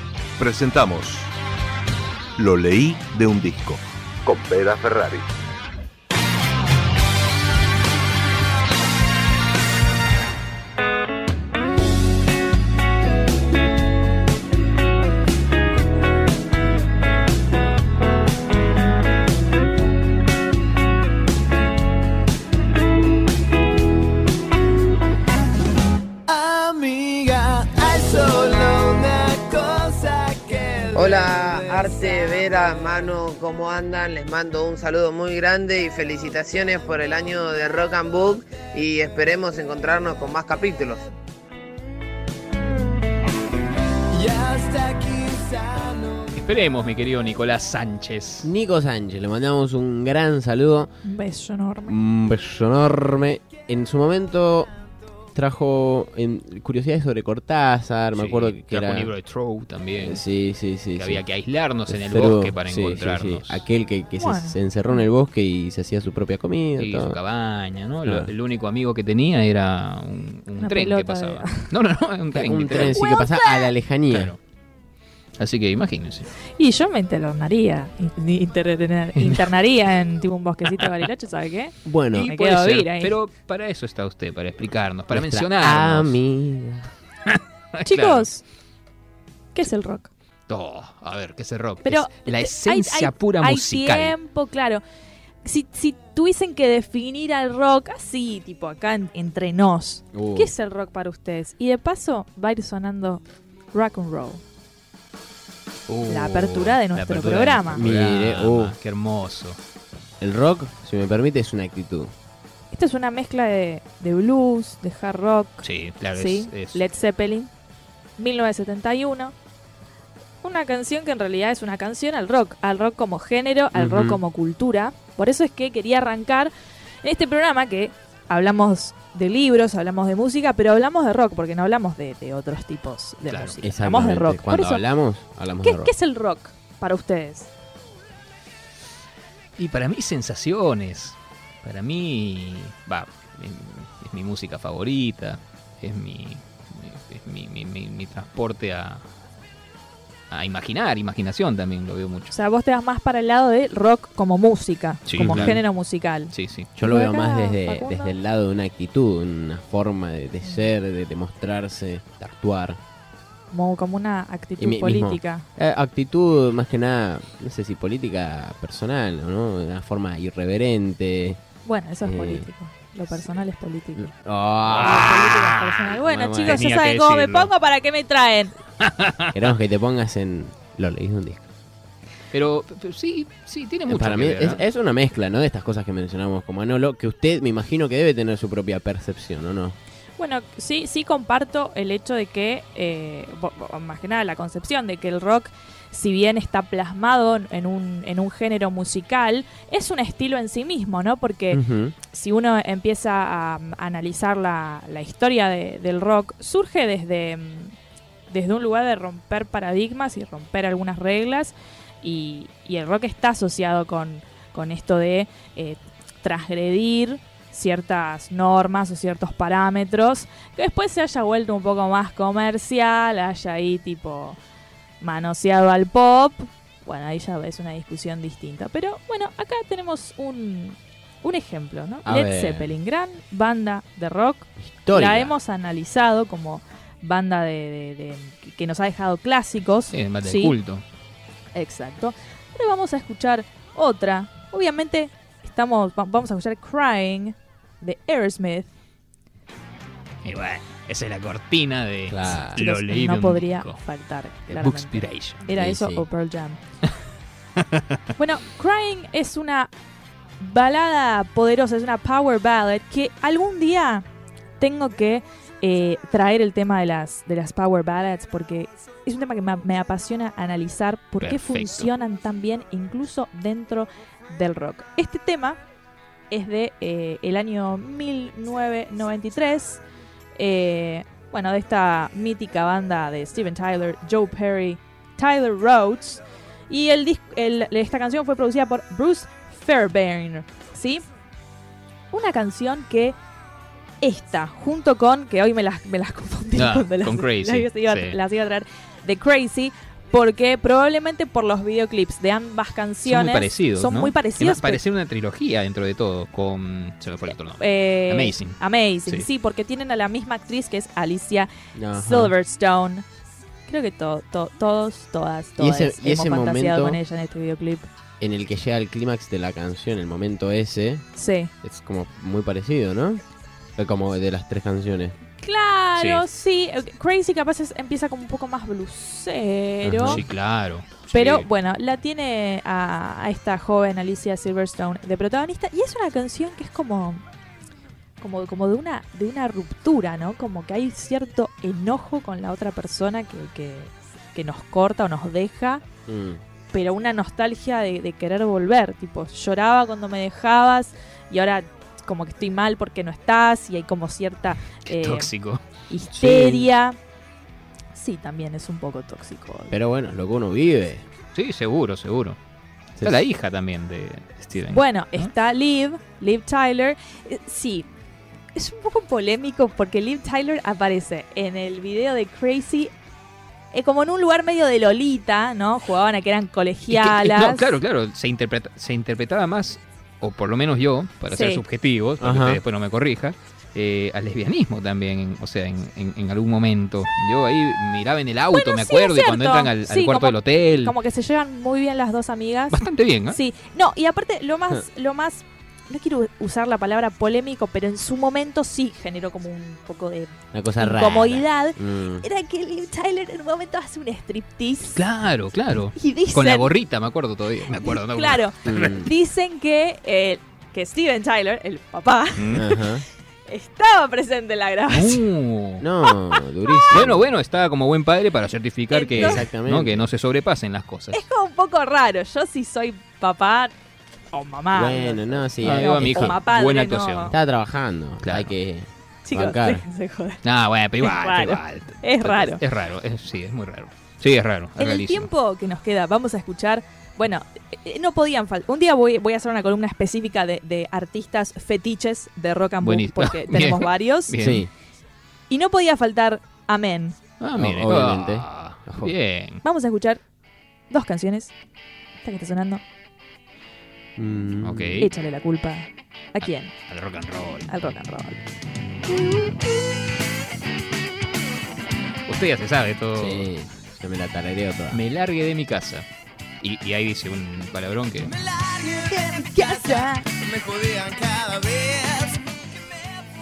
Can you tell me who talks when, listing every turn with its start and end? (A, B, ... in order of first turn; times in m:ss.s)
0:00.4-0:01.3 A
0:02.4-0:05.3 A
0:26.3-0:32.5 B
0:30.9-0:41.0 C
0:44.1-0:46.3 B
0:46.4-0:48.5 D
0:48.4-0:50.9 E
0:51.0-0:52.0 F
0:51.8-0:54.7 E
0:55.3-0:59.1 E
0:58.1-1:00.2 D
1:00.0-1:01.2 E
1:00.9-1:03.6 D
1:01.9-1:07.2 E
1:04.2-1:05.0 F
1:06.8-1:13.0 D
1:08.0-1:08.3 E
1:10.6-1:11.7 F
1:12.3-1:14.3 E
1:12.8-1:13.7 F
1:14.1-1:14.4 D
1:15.4-1:16.3 D
1:16.6-1:23.2 F
1:19.2-1:19.5 D
1:21.8-1:22.3 E
1:22.1-1:26.2 D
1:25.1-1:26.9 E
1:27.2-1:28.3 D
1:27.8-1:28.4 F
1:29.5-1:30.1 F
1:30.5-1:34.1 D
1:31.8-1:34.8 F
1:35.4-1:44.4 F
1:40.1-1:40.5 E
1:45.9-1:49.6 D
1:46.1-1:47.8 F
1:47.7-1:48.8 E
1:50.2-1:52.1 E
1:52.7-1:57.5 F
1:55.6-1:56.8 D
1:58.2-1:59.3 F
2:00.4-2:06.5 F
2:03.7-2:04.2 E
2:07.0-2:14.8 F
2:13.3-2:13.6 D
2:13.6-2:15.9 E
2:15.6-2:17.5 F
2:19.6-2:29.1 D
2:30.3-2:32.3 D
2:32.3-2:38.2 F
2:35.0-2:35.6 D
2:35.2-2:35.6 E
2:36.3-2:36.7 D
2:36.8-2:42.8 E
2:43.5-2:45.4 F
2:44.6-2:51.4 E
2:51.6-2:54.1 F
2:52.0-2:52.5 E
2:54.0-2:56.6 E
2:54.7-2:57.5 D
2:54.7-2:58.6 F
2:58.8-2:59.3 D
2:59.3-3:01.5 E
3:02.3-3:04.6 D
3:03.9-3:09.8 E
3:10.2-3:27.7 F
3:21.5-3:22.0 E
3:28.3-3:44.4 F
3:45.0-4:00.6 F
3:52.0-3:52.7 E
3:54.6-3:55.3 E
3:59.9-4:00.8 D
4:01.5-4:08.7 F
4:10.2-4:13.8 D
4:12.1-4:12.6 E
4:12.5-4:16.6 F
4:14.5-4:15.4 D
4:15.5-4:16.0 E
4:17.6-4:18.0 D
4:18.2-4:19.7 F
4:20.4-4:24.0 F
4:24.6-4:35.6 F
4:31.2-4:31.9 D
4:36.3-4:39.8 F
4:40.4-4:51.0 F
4:52.1-4:53.2 F
4:54.0-5:04.8 F
4:56.5-4:58.2 D
5:03.0-5:09.3 D
5:07.6-5:13.0 F
5:11.7-5:12.3 E
5:13.6-5:17.9 F
5:15.6-5:17.0 E
5:18.2-5:21.0 E
5:21.1-5:21.5 F
5:21.6-5:23.2 E
5:23.8-5:25.2 E
5:25.4-5:30.2 F
5:26.0-5:26.2 D
5:29.8-5:30.2 E
5:30.0-5:31.5 D
5:31.1-5:37.2 F
5:38.2-5:45.8 F
5:46.1-5:46.4 E
5:46.7-5:55.3 F
5:54.8-5:55.6 D
5:55.9-5:57.0 F
5:56.1-5:56.7 E
5:57.9-5:59.7 F
5:59.7-6:01.0 E
6:01.3-6:02.4 D
6:03.0-6:05.3 D
6:04.7-6:07.9 F
6:08.5-6:12.9 F
6:13.7-6:17.7 F
6:16.9-6:30.9 D
6:21.3-6:21.6 F
6:22.2-6:22.6 E
6:28.5-6:45.0 F
6:32.7-6:33.4 D
6:40.5-6:42.2 E
6:44.9-6:49.1 D
6:45.9-6:46.7 F
6:47.7-6:52.9 F
6:48.6-6:49.1 E
6:52.4-6:52.6 D
6:52.5-6:53.0 E
6:53.5-6:55.2 F
6:54.9-6:55.8 D
6:55.8-6:57.3 E
6:56.0-6:56.9 F
6:56.9-7:01.2 D
6:58.9-6:59.5 F
6:59.1-7:00.1 E
7:01.1-7:03.7 F
7:04.3-7:07.4 F
7:04.7-7:06.4 E
7:05.6-7:07.4 D
7:07.3-7:09.8 E
7:08.2-7:08.5 D
7:09.2-7:10.4 F
7:10.4-7:15.3 D
7:11.0-7:12.6 F
7:14.8-7:24.4 F
7:22.8-7:24.7 D
7:24.4-7:24.7 E
7:25.5-7:27.2 F
7:27.4-7:29.6 D
7:27.5-7:29.1 E
7:29.6-7:30.2 F
7:30.9-7:31.5 F
7:32.2-7:32.8 F
7:34.2-7:35.0 E
7:34.6-7:35.1 D
7:35.0-7:36.7 F
7:36.4-7:37.7 D
7:37.7-7:38.4 F
7:39.1-7:39.6 F
7:42.3-7:43.5 D
7:43.2-7:45.0 E
7:44.9-7:46.0 D
7:46.6-7:48.4 D
7:48.3-7:52.4 B
7:49.0-7:50.3 F